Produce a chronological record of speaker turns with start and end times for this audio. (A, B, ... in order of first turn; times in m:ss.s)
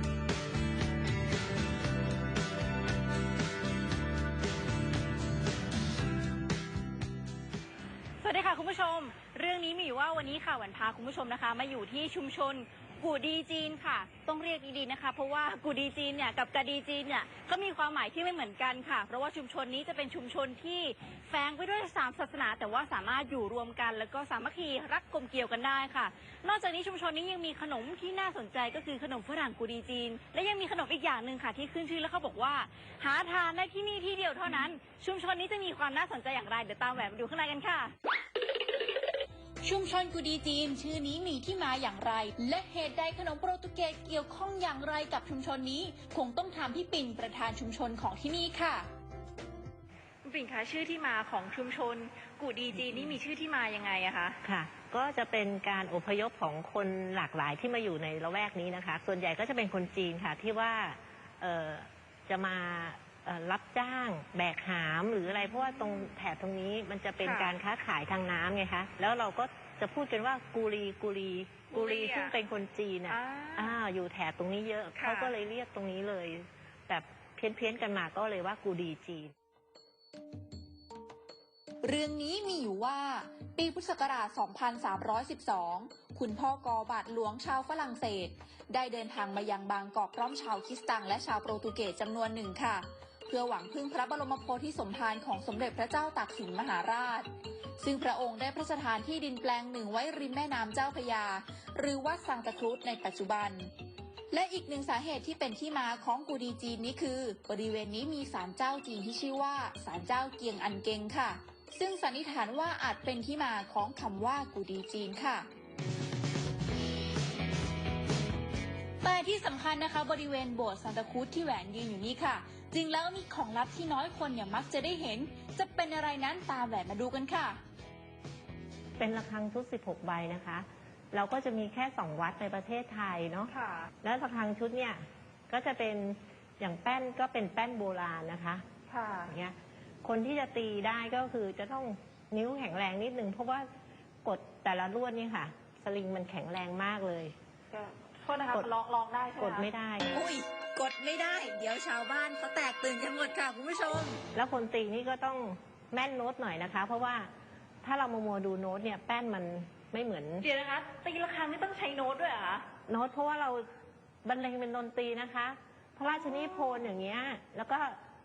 0:08.2-0:37.9 A
0:39.6-0:48.9 B
0:50.3-0:54.3 B
0:54.4-1:19.3 C
1:11.8-1:12.3 A
1:13.1-1:13.7 A
1:21.8-1:37.3 B
1:37.8-1:43.7 B
1:44.3-1:55.5 B
1:59.0-2:07.6 B
2:09.0-2:18.7 C
2:13.6-2:13.9 A
2:18.9-2:19.3 A
2:19.3-2:23.7 C
2:24.2-2:27.4 C
2:27.9-2:29.6 A
2:29.4-2:30.2 C
2:30.1-2:34.2 B
2:34.3-2:37.3 C
2:37.8-2:40.5 C
2:40.5-2:42.6 A
2:42.9-2:43.7 C
2:44.2-2:48.0 C